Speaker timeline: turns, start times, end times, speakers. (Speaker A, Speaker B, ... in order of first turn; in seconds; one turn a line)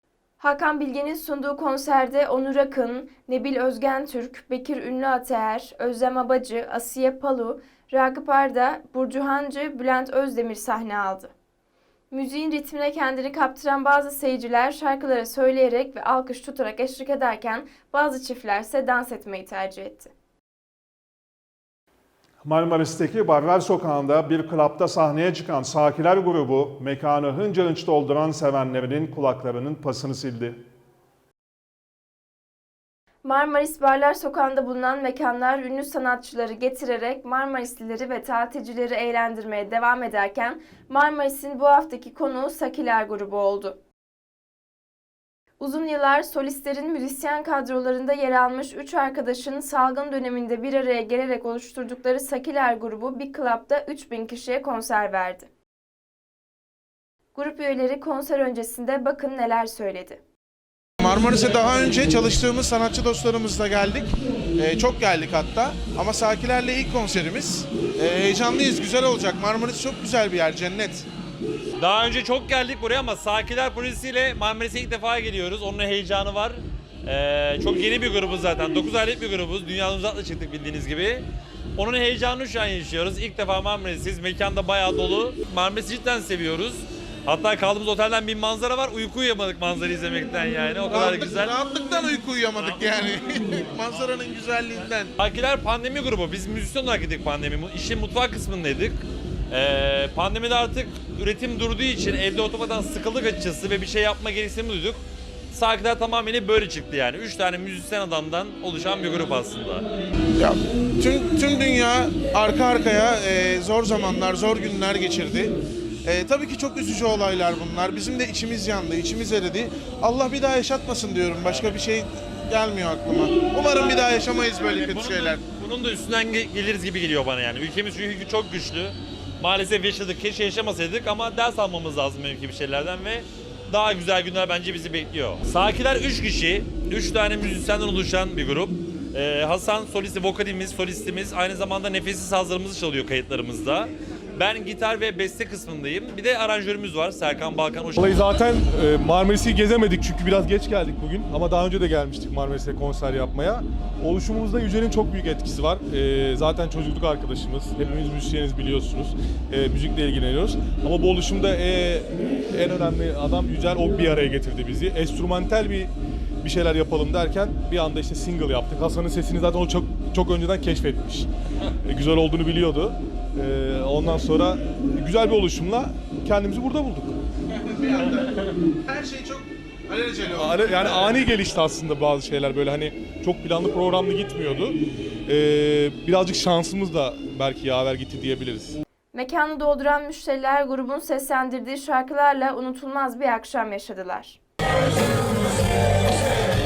Speaker A: 0.4-11.3
Speaker A: 12.1-20.1
Speaker B: 22.4-30.6
Speaker A: 33.2-43.8
Speaker A: 45.6-55.5
Speaker A: 57.4-60.2
Speaker C: 61.0-71.1
Speaker D: 71.8-81.2
Speaker D: 81.8-91.6
Speaker C: 90.9-95.1
Speaker D: 92.6-93.1
Speaker D: 95.2-105.0
Speaker D: 105.5-109.8
Speaker C: 110.4-115.5
Speaker C: 116.0-125.4
Speaker D: 121.5-121.8
Speaker D: 124.6-148.3
Speaker E: 148.0-165.9
Speaker E: 166.4-171.3
Speaker E: 171.8-177.2
Speaker C: 177.8-178.2
Speaker C: 178.9-181.2
Speaker E: 180.3-188.8
Speaker A: 189.1-194.4